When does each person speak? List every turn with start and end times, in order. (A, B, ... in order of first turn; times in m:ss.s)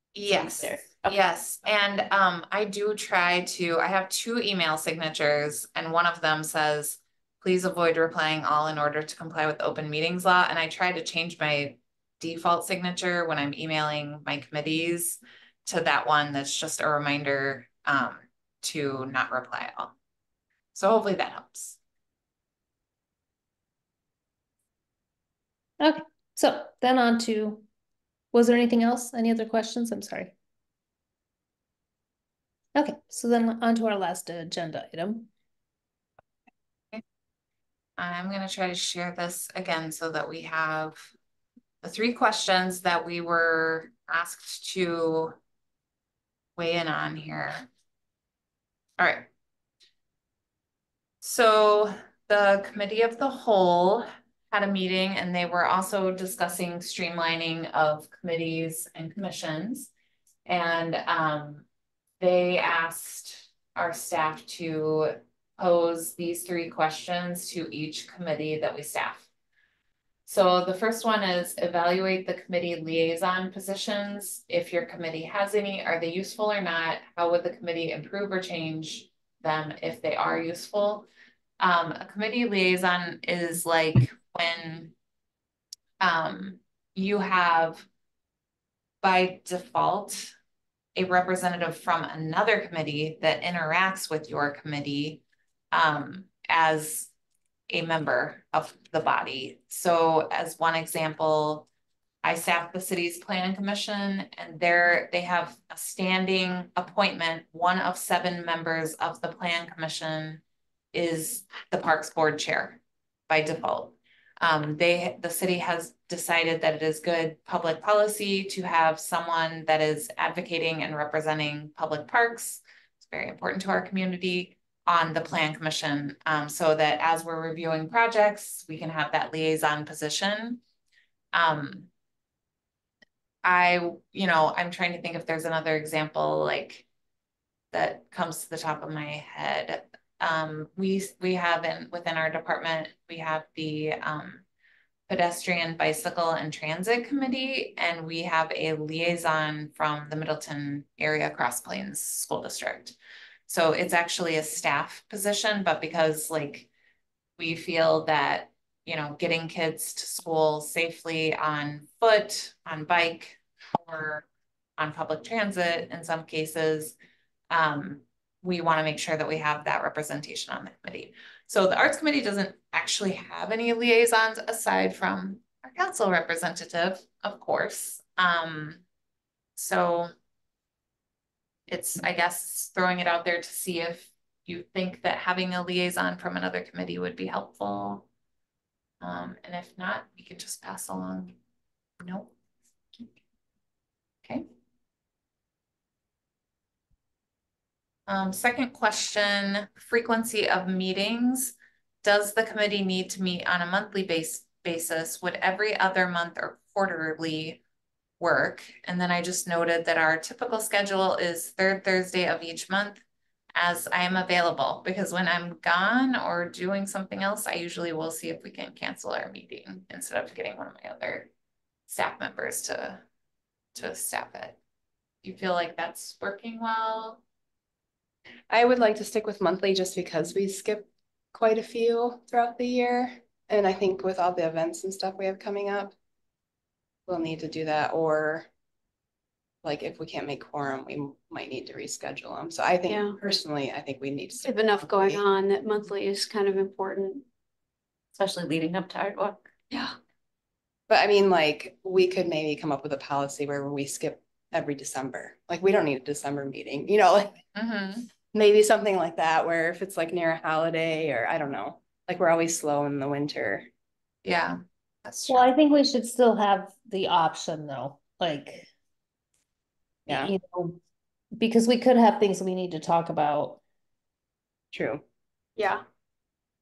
0:00.1-0:19.9 A
0:00.3-0:01.2 B
0:20.7-0:21.8 A
0:25.8-0:27.6 C
0:28.3-0:30.3 C
0:32.7-0:35.3 C
0:38.0-0:41.1 A
0:41.8-0:45.3 A
0:46.6-0:47.7 A
0:49.0-0:49.3 A
0:51.2-0:59.9 A
1:00.4-1:01.6 A
1:02.2-1:09.3 A
1:10.3-1:21.1 A
1:21.6-1:24.9 A
1:26.0-1:27.9 A
1:29.0-1:30.3 A
1:30.9-1:37.1 A
1:37.7-1:41.6 A
1:42.2-1:50.4 A
1:50.9-2:10.6 A
2:11.3-2:11.9 A
2:13.4-2:16.8 A
2:17.7-2:24.4 A
2:25.1-2:33.0 A
2:33.5-2:36.7 A
2:37.4-2:44.3 A
2:44.8-2:47.0 A
2:47.5-2:58.8 A
2:59.6-3:00.1 A
3:01.7-3:08.0 A
3:09.0-3:11.3 A
3:12.0-3:12.3 A
3:18.1-3:27.6 A
3:28.2-3:33.0 A
3:33.6-3:41.3 A
3:41.9-3:43.0 A
3:43.7-3:44.6 A
3:45.2-3:47.2 A
3:48.5-3:55.9 D
3:57.1-3:58.5 D
3:59.6-4:05.2 D
4:02.9-4:03.2 E
4:04.4-4:07.2 E
4:08.1-4:09.5 B
4:10.9-4:17.4 D
4:17.6-4:18.1 A
4:18.3-4:23.7 D
4:24.2-4:25.5 A
4:25.3-4:28.7 C
4:30.1-4:30.8 C
4:31.4-4:33.6 C
4:34.7-4:35.0 D
4:35.6-4:35.8 E